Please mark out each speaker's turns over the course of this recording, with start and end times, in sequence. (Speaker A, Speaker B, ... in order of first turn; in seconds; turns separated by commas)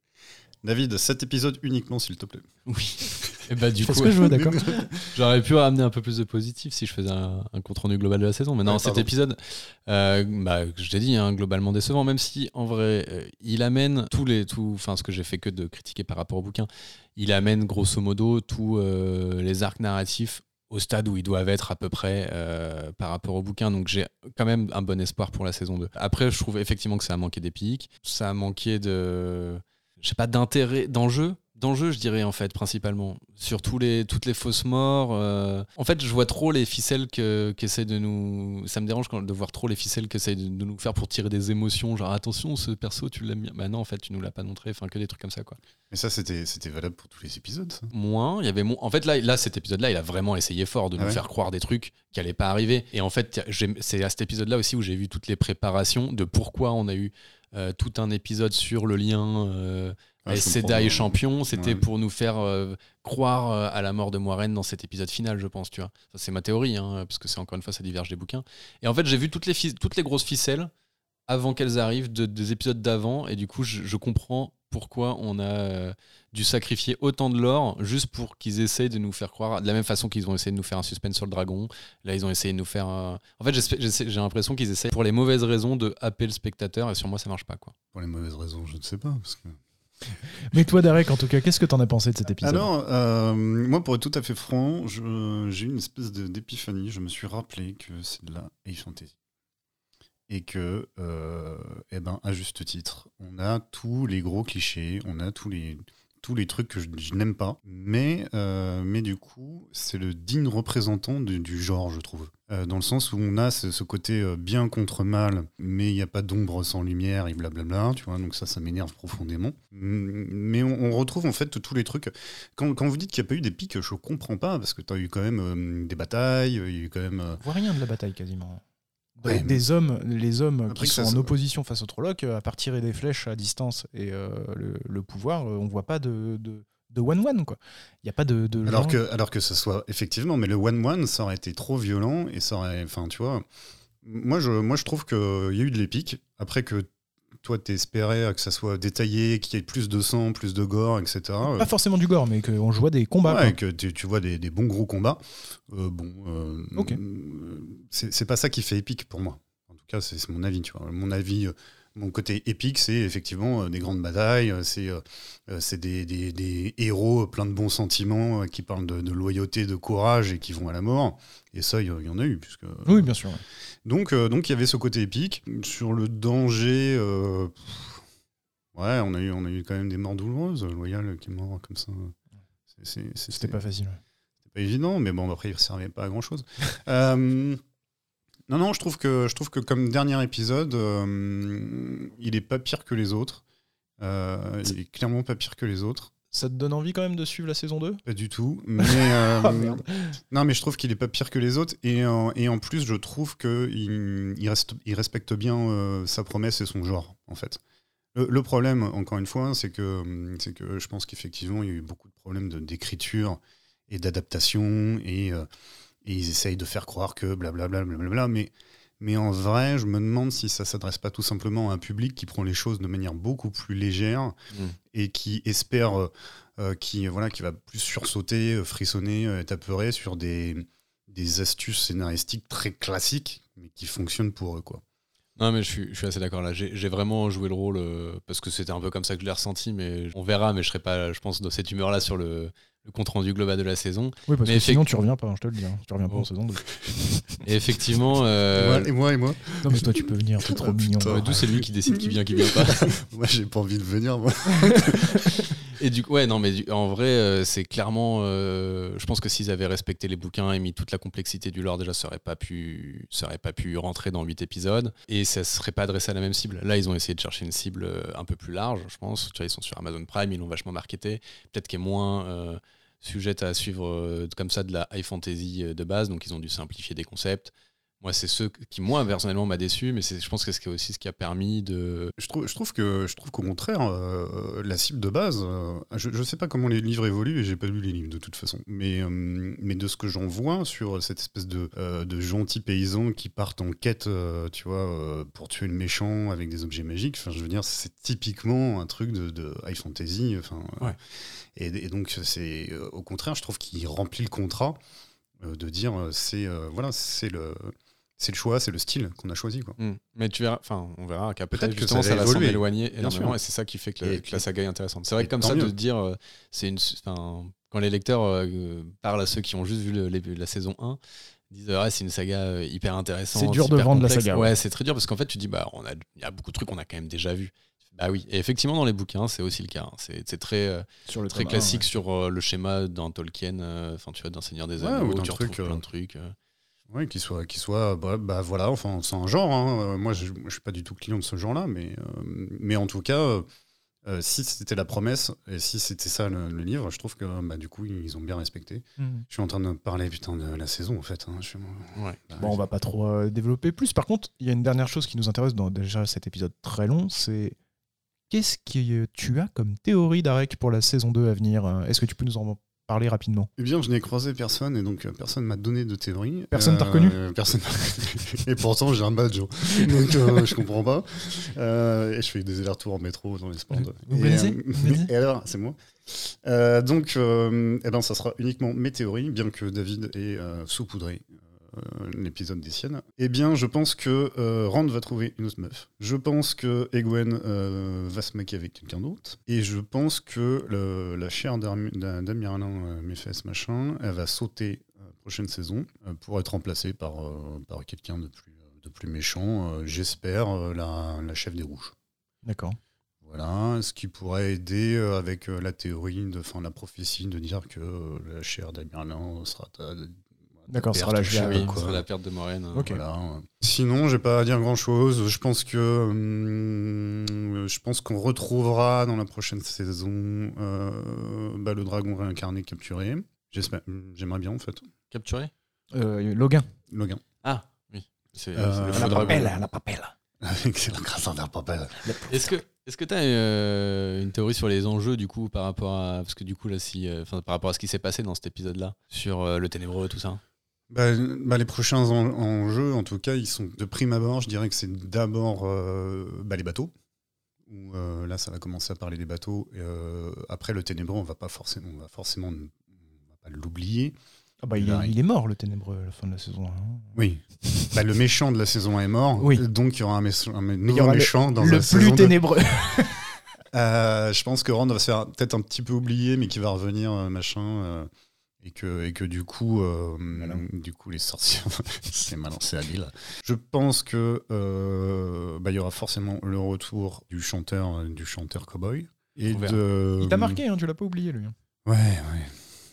Speaker A: 0.6-2.5, Speaker B: 2.7-45.6, Speaker C: 3.8-4.8, Speaker A: 4.3-5.0, Speaker A: 8.6-9.1, Speaker A: 45.9-47.9, Speaker B: 47.9-70.7, Speaker A: 60.2-61.8, Speaker B: 71.3-87.7, Speaker A: 87.9-89.6, Speaker C: 90.5-92.7, Speaker A: 92.4-99.1, Speaker A: 100.3-127.4, Speaker C: 127.4-128.6, Speaker C: 129.2-139.0, Speaker A: 129.2-129.6, Speaker A: 130.7-131.3, Speaker A: 138.7-143.4, Speaker A: 144.0-146.9, Speaker A: 147.4-151.7, Speaker C: 151.4-153.6, Speaker A: 153.2-173.1, Speaker C: 156.7-157.0, Speaker C: 172.8-173.4, Speaker A: 173.8-178.0, Speaker A: 178.7-182.1, Speaker A: 182.7-183.6, Speaker C: 183.3-184.0, Speaker A: 184.5-187.6, Speaker A: 188.5-193.4, Speaker A: 194.0-196.1, Speaker C: 196.3-198.0, Speaker A: 198.1-207.6, Speaker C: 198.8-200.2, Speaker A: 208.1-215.5, Speaker A: 216.0-224.3, Speaker A: 224.9-234.8, Speaker B: 235.4-244.8, Speaker C: 244.3-247.4, Speaker B: 247.4-248.9, Speaker A: 248.5-255.5, Speaker C: 249.6-251.5, Speaker B: 251.0-252.9, Speaker C: 254.7-255.0, Speaker B: 255.8-282.1, Speaker A: 282.2-304.8, Speaker A: 305.4-309.8, Speaker B: 309.8-321.0, Speaker A: 311.5-313.4, Speaker A: 314.0-314.4, Speaker A: 315.2-315.7, Speaker B: 321.5-336.3, Speaker C: 323.3-324.5, Speaker C: 331.1-331.9, Speaker A: 334.8-335.8, Speaker A: 336.9-343.4, Speaker A: 344.0-352.6, Speaker C: 349.0-349.2, Speaker C: 352.4-357.6, Speaker C: 358.3-363.5, Speaker A: 363.6-401.9, Speaker C: 366.5-367.2, Speaker C: 373.8-375.1, Speaker C: 402.4-402.8, Speaker A: 403.2-412.0, Speaker C: 410.7-411.8, Speaker B: 411.3-412.9, Speaker C: 412.7-413.0, Speaker A: 412.9-424.9, Speaker B: 425.1-425.5, Speaker C: 425.9-426.7, Speaker A: 426.9-427.2, Speaker B: 427.4-429.5, Speaker A: 428.5-429.5, Speaker C: 428.9-430.1, Speaker A: 430.4-432.2, Speaker C: 432.0-432.5, Speaker B: 432.3-440.4, Speaker A: 440.9-446.9, Speaker A: 447.7-454.1, Speaker C: 454.6-457.9, Speaker A: 454.8-455.1, Speaker A: 457.1-462.4, Speaker C: 459.4-459.6, Speaker C: 460.9-463.2, Speaker A: 463.7-468.1, Speaker A: 468.6-480.6, Speaker C: 470.4-470.6, Speaker B: 479.5-479.8, Speaker C: 480.2-481.5, Speaker A: 481.9-482.6